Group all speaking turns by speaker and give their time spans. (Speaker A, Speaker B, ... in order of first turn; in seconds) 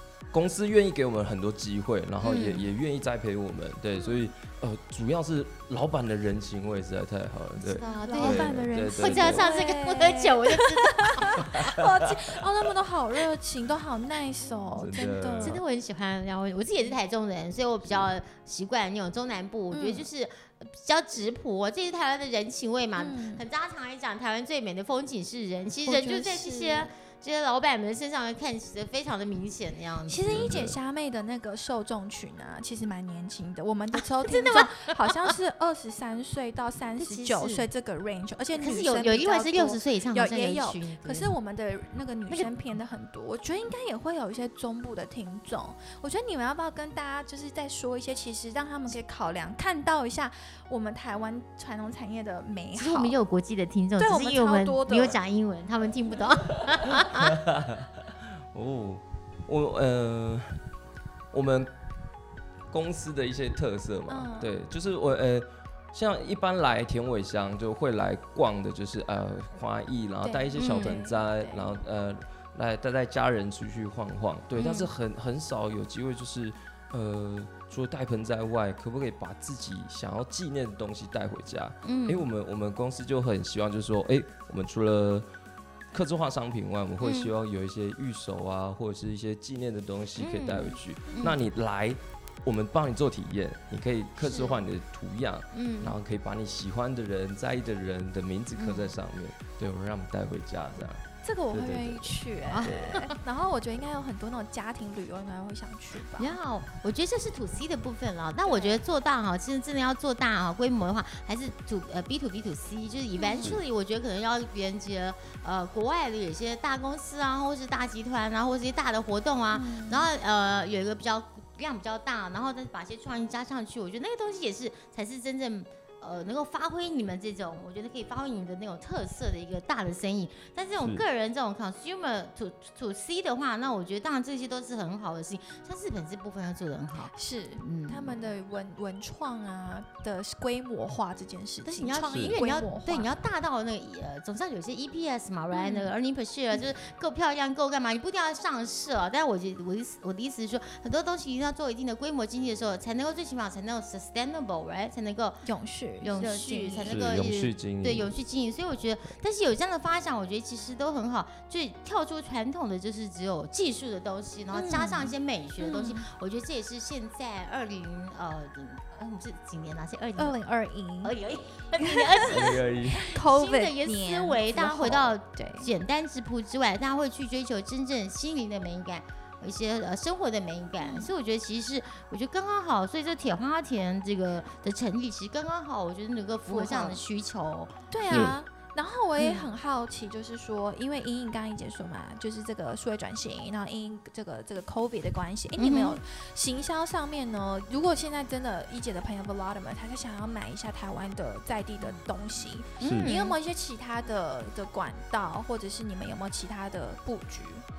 Speaker A: 0.3-9.5, 11.4-12.2, 14.8-15.6, 17.8-18.1, 30.3-30.8, 57.0-57.9, 58.5-60.6, 61.3-61.7, 62.7-85.3, 85.9-103.0, 142.1-142.4, 156.9-158.1, 172.3-173.0, 188.1-188.4, 202.8-203.1
Speaker B: 2.2-2.7, 7.7-11.6, 15.4-30.5, 33.9-35.3, 37.0-37.7, 38.5-41.3, 52.8-57.4, 70.6-71.0, 74.6-74.9, 81.8-82.3, 87.0-87.3, 90.2-91.4, 94.2-94.7, 95.5-96.0, 98.6-99.0, 102.5-103.2, 106.2-138.2, 141.6-155.5, 156.0-170.4, 171.0-188.4, 189.2-189.5, 195.6-196.0, 202.8-203.4
Speaker C: 7.7-15.6, 19.7-20.1, 23.0-23.4, 25.9-26.9, 30.1-53.2, 54.0-55.2, 64.1-64.5, 70.2-71.8, 91.1-91.3, 101.2-106.4, 108.4-108.8, 113.2-113.6, 119.5-120.1, 137.1-143.1, 145.5-145.9, 155.4-157.0, 164.5-166.1, 170.2-171.1, 171.8-172.3, 173.0-175.7, 180.8-181.1, 186.5-187.0, 187.9-207.6